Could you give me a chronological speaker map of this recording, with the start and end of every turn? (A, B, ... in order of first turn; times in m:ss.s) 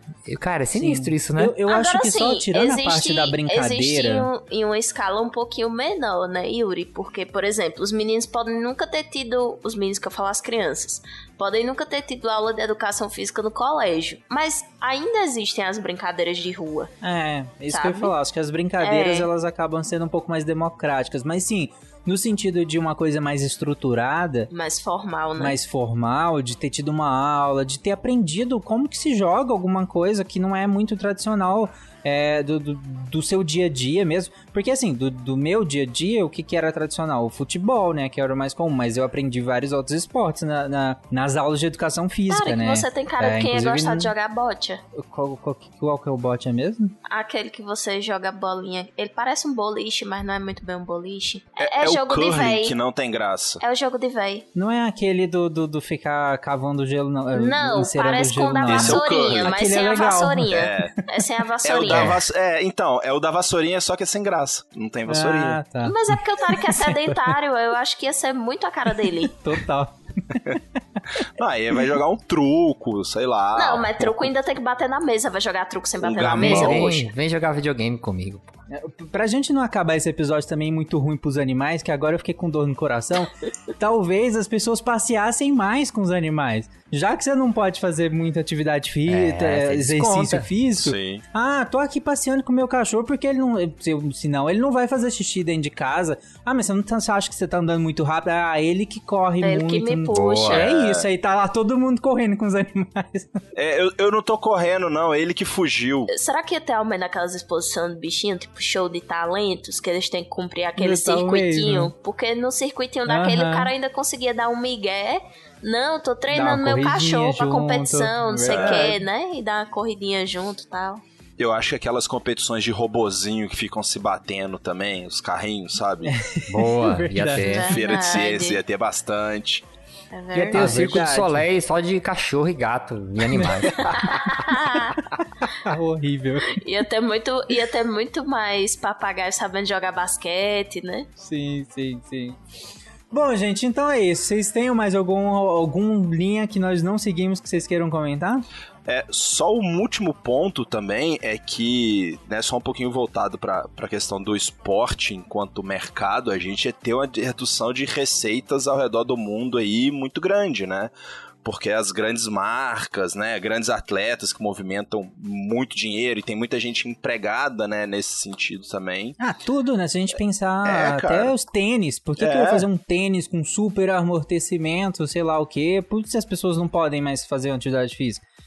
0:00.3-0:01.6 A
0:00.7-0:04.3 B
0:01.7-0:16.9 C
0:17.0-0:24.5 B
0:17.7-0:18.1 C
0:18.8-0:19.3 C
0:24.5-0:25.6 C
0:25.4-0:44.1 B
0:42.3-0:44.8 C
0:45.0-0:47.0 B
0:47.1-0:52.8 C
0:51.6-0:53.6 D
0:53.6-0:54.5 C
0:54.6-1:00.8 B
0:57.3-1:02.1 C
0:58.6-0:59.8 D
1:00.5-1:00.9 D
1:01.6-1:05.6 D
1:05.1-1:07.2 B
1:05.8-1:09.3 C
1:09.4-1:10.6 B
1:11.4-1:14.3 D
1:13.6-1:17.1 C
1:16.0-1:17.0 D
1:16.3-1:18.6 A
1:18.7-1:43.3 B
1:29.1-1:30.5 A
1:30.8-1:31.2 D
1:39.4-1:40.7 C
1:40.1-1:40.6 A
1:40.5-1:41.1 D
1:43.6-1:46.1 D
1:46.1-2:01.0 C
1:50.8-1:51.9 B
1:53.1-1:53.7 B
1:56.3-1:59.0 B
1:58.5-1:58.9 D
2:01.4-2:06.1 D
2:06.1-2:07.9 B
2:06.5-2:07.7 A
2:07.5-2:08.6 C
2:07.7-2:09.7 D
2:10.1-2:10.7 C
2:10.4-2:11.4 B
2:10.5-2:13.8 A
2:13.3-2:13.7 B
2:13.9-2:15.0 C
2:15.6-2:16.6 B
2:16.6-2:21.1 C
2:21.2-2:22.4 B
2:23.1-2:28.5 B
2:28.9-2:40.9 D
2:41.4-2:49.2 D
2:49.2-2:58.2 B
2:50.6-2:51.3 D
2:52.2-2:52.7 D